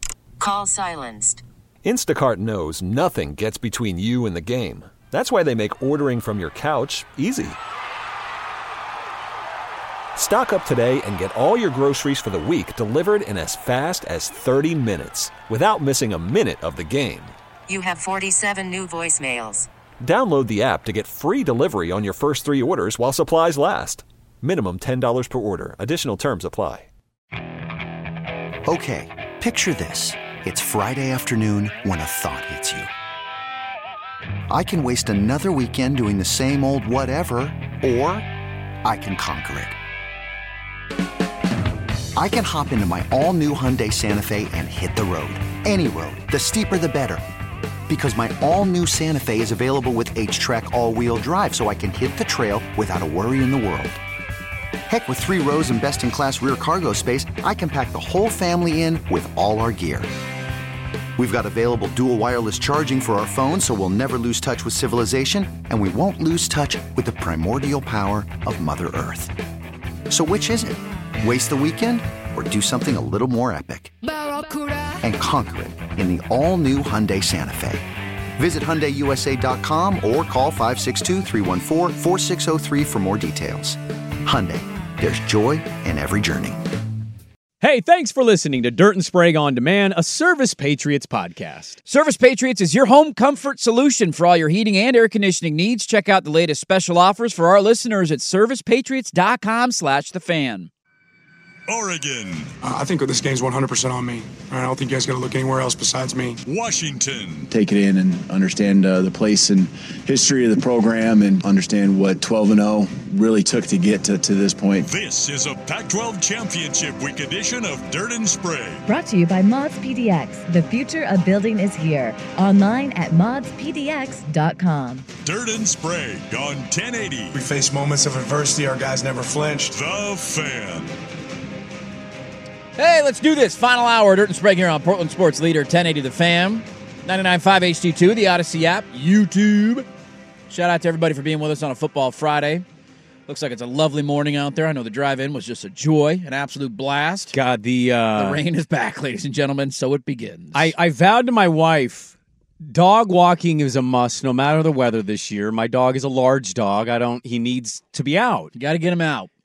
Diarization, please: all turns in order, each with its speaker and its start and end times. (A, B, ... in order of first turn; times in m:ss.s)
0:00.4-0:01.4 A
0:01.8-0:07.6 B
0:10.1-0:17.3 B
0:17.7-0:19.7 A
0:20.0-0:26.9 B
0:28.6-0:32.9 C
0:34.5-0:38.3 C
0:38.8-0:39.8 C
0:42.1-0:47.2 C
0:47.9-0:54.0 C
0:54.9-1:00.1 C
1:01.2-1:09.3 C
1:10.1-1:13.9 C
1:15.0-1:17.8 C
1:18.4-1:26.6 C
1:27.6-1:31.8 D
1:31.8-1:40.7 E
1:41.7-1:42.5 F
1:42.6-1:46.4 G
1:46.4-1:47.5 F
1:47.5-1:54.9 H
1:54.8-1:58.8 F
1:58.8-2:05.0 I
2:05.2-2:07.4 F
2:07.3-2:09.7 G
2:09.7-2:10.9 F
2:12.8-2:19.8 E
2:20.5-2:22.6 E
2:23.3-2:27.3 E
2:27.3-2:28.4 D
2:28.2-2:30.7 E
2:30.5-2:32.1 D
2:32.6-2:38.5 D
2:38.5-2:39.3 E